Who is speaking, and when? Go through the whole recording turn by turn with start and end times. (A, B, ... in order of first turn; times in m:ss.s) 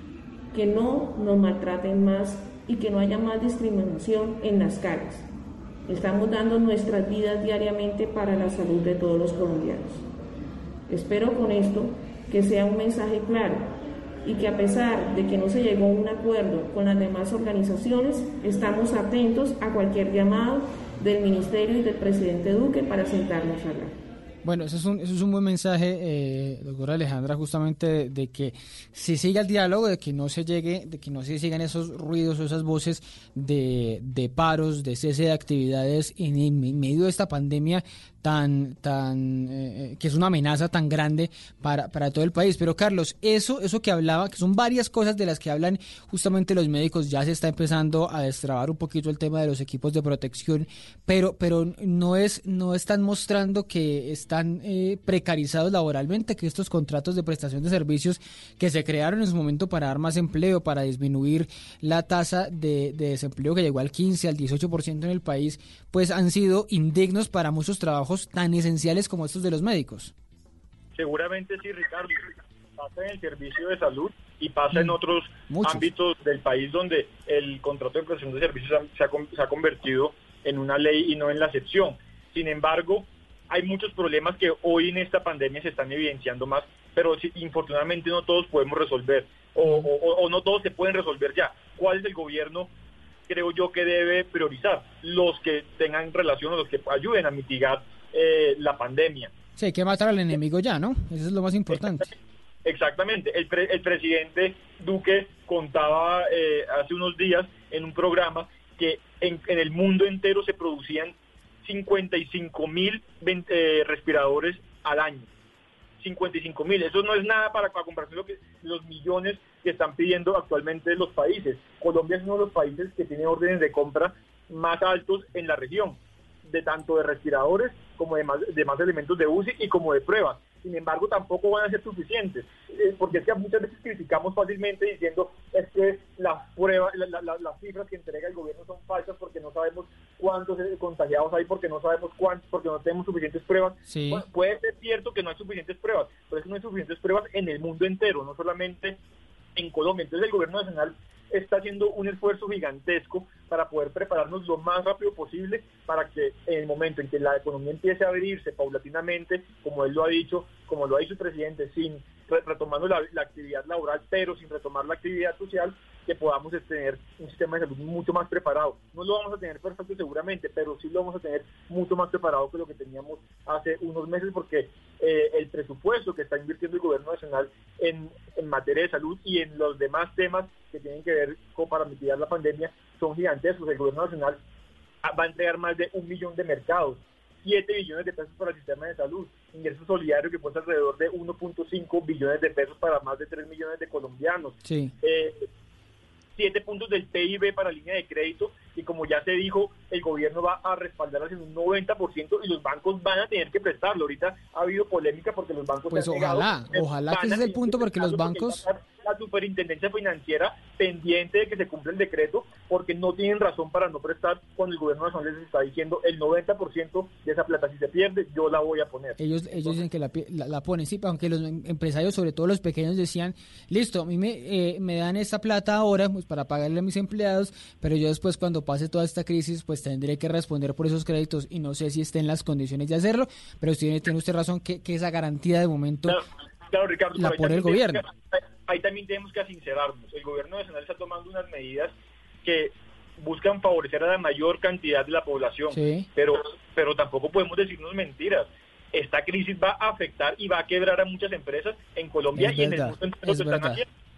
0:00.5-0:05.2 A
0:05.9-0:10.0 A
0:10.9-0:13.7 A
0:14.2-0:23.9 A
0:24.4-1:10.1 B
1:10.9-1:32.7 C
1:15.5-1:15.9 B
1:33.3-1:39.3 C
1:39.6-1:42.1 B
1:42.6-1:55.3 C
1:56.0-2:29.0 C
2:23.9-2:24.2 B
2:29.6-3:04.4 C
3:05.0-3:15.4 C
3:14.6-3:14.9 B
3:16.4-3:39.8 C
3:25.9-3:28.6 B
3:39.2-3:56.2 B
3:56.1-4:13.8 C
3:57.2-3:58.0 B
4:05.7-4:06.1 B
4:12.3-4:13.8 B